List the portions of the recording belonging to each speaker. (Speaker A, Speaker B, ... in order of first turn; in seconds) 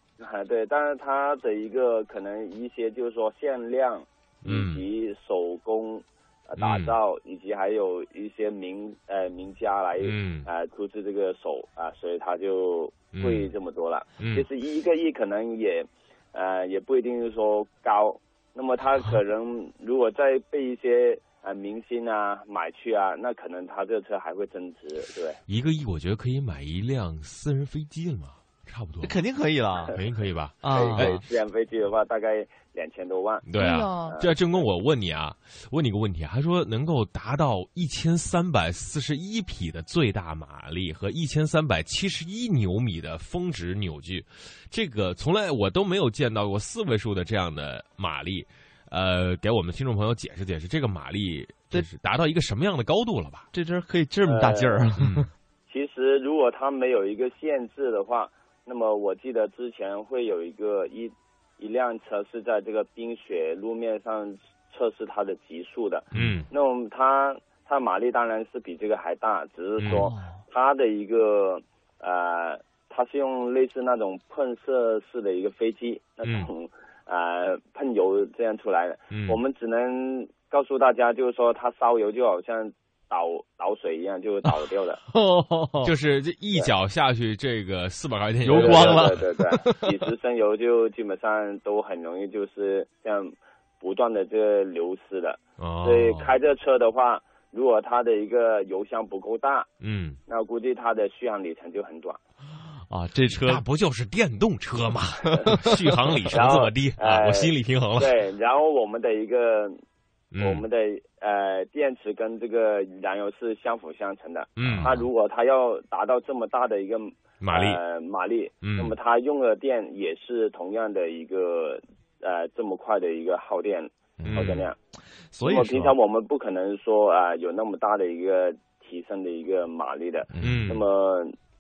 Speaker A: 0.2-25.4, 30.7-33.5, 34.0-34.3, 54.2-54.8, 55.7-85.0, 88.5-99.7, 100.3-102.2, 106.3-109.8, 110.4-124.8, 125.4-131.3
Speaker B: 4.4-4.8, 6.6-6.9, 10.0-10.5, 13.1-13.5, 14.2-14.4, 25.5-29.2, 29.9-31.2, 33.4-53.5, 55.0-55.3, 66.1-66.5, 69.8-70.0, 76.2-76.5, 79.1-79.4, 85.8-89.2, 95.6-96.3, 99.8-100.2, 103.4-108.2, 110.3-110.6, 114.6-115.0, 117.4-117.8, 118.6-118.9, 124.3-124.7, 130.4-130.8
Speaker C: 29.0-29.9, 30.6-31.1, 33.5-34.2, 53.5-55.3, 66.1-66.4, 69.8-70.4, 85.1-85.9, 88.4-89.9, 102.9-103.6, 105.5-105.8, 125.3-125.9, 130.3-130.6